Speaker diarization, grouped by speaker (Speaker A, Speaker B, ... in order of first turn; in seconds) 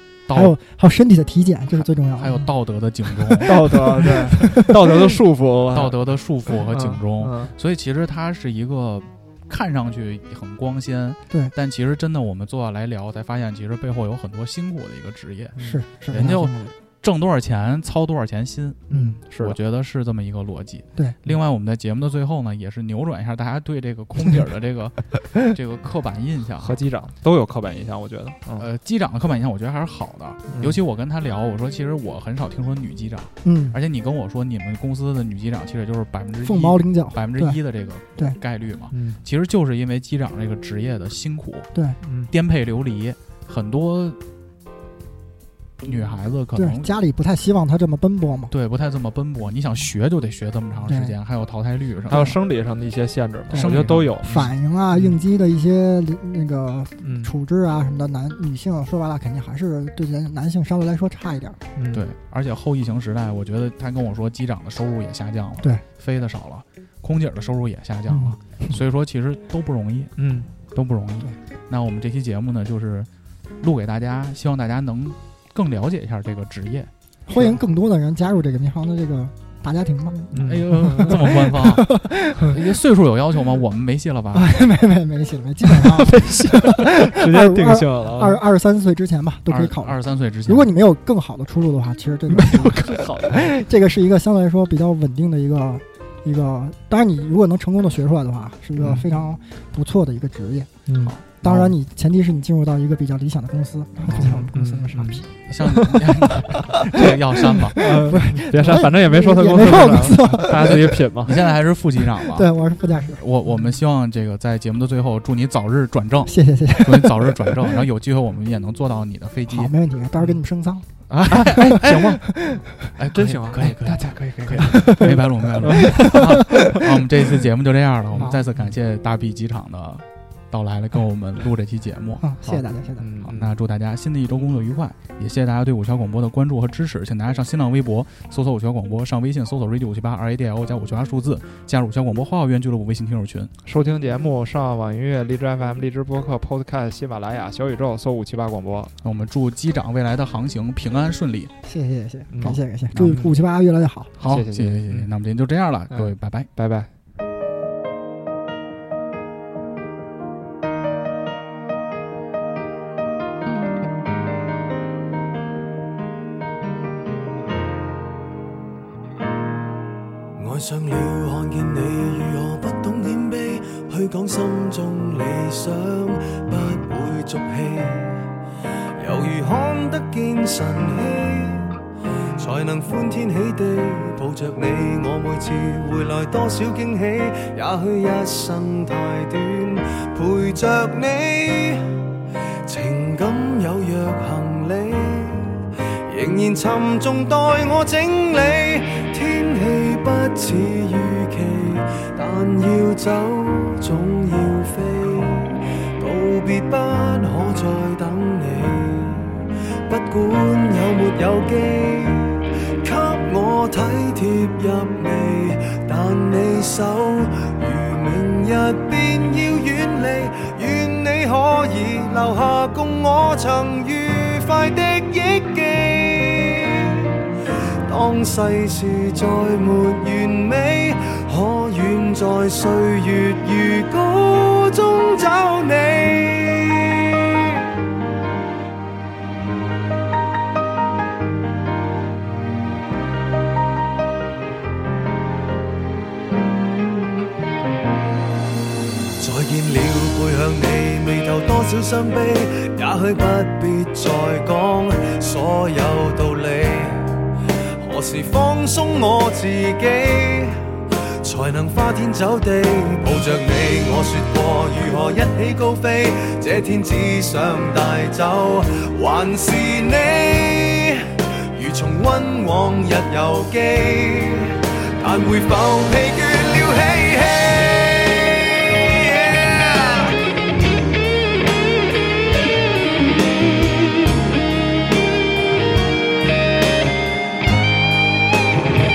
Speaker A: 0.3-0.6, 2.2-3.6, 5.7-26.8, 28.6-41.7, 42.3-44.2, 45.8-46.9, 48.5-52.3, 53.5-54.5, 61.9-70.1, 70.7-73.1, 73.6-76.9, 80.4-84.5, 89.5-90.7, 101.1-101.7, 104.0-104.5, 105.4-107.8, 110.6-112.5, 113.1-119.7, 121.1-122.2, 123.0-132.2, 133.2-143.5, 149.0-151.5, 154.2-156.5
Speaker B: 0.3-2.4, 3.4-5.1, 15.6-16.7, 18.9-19.2, 33.4-33.8, 36.4-37.6, 46.5-48.5, 50.9-51.1, 53.5-61.6, 68.1-68.7, 77.3-82.5, 84.3-105.2, 106.8-110.9, 112.1-113.2, 116.2-117.7, 119.5-120.8, 121.6-122.6, 124.6-125.1, 125.7-126.8, 132.2-133.1, 151.6-154.1
Speaker C: 3.3-7.5, 15.6-15.8, 18.9-19.6, 26.6-28.7, 30.5-30.8, 38.9-39.2, 42.0-42.3, 52.1-55.1, 57.0-57.3, 61.8-62.1, 70.2-70.5, 80.3-81.3, 85.6-88.4, 92.3-93.5, 98.8-99.0, 100.9-101.2, 104.1-106.4, 107.7-111.4, 121.2-122.2, 123.1-126.6, 132.5-133.6, 143.6-148.9, 152.3-153.3, 154.2-155.1, 155.9-156.9
Speaker D: 170.4-178.2, 179.0-181.8, 182.4-191.9, 192.7-227.1, 227.9-237.6, 249.2-257.2, 257.8-260.6, 261.2-280.2